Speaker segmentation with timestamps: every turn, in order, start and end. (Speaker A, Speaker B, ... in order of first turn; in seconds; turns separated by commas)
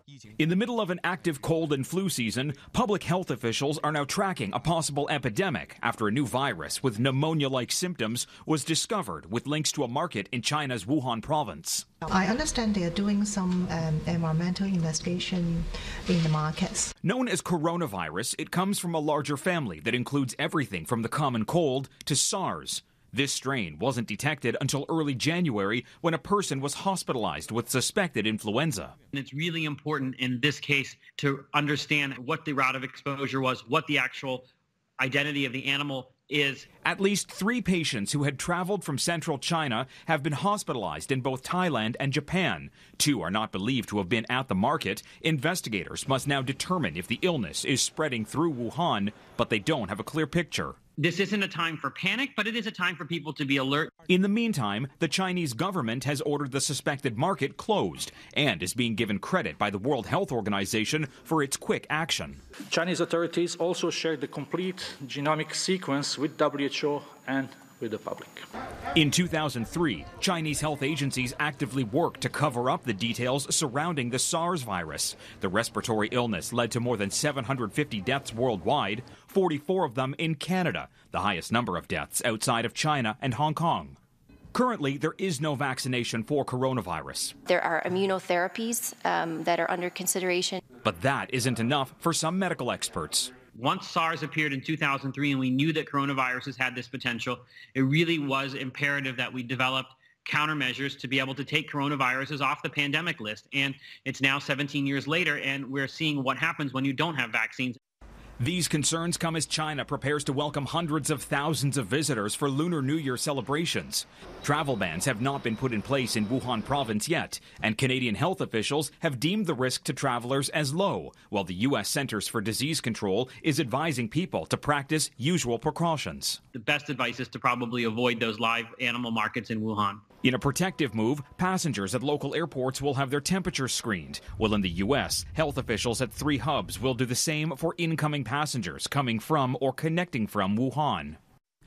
Speaker A: 0.4-11.8, Speaker B: 12.1-16.9, Speaker A: 17.0-28.9, Speaker C: 29.1-34.5, Speaker C: 35.0-36.6, Speaker A: 36.8-50.8, Speaker C: 51.0-53.9, Speaker A: 54.1-62.4, Speaker D: 62.7-68.4, Speaker A: 68.9-84.0, Speaker A: 84.5-87.3, Speaker E: 87.5-90.6, Speaker A: 90.8-93.3, Speaker C: 93.5-107.8, Speaker A: 108.4-126.4, Speaker C: 126.5-130.0, Speaker A: 130.2-141.2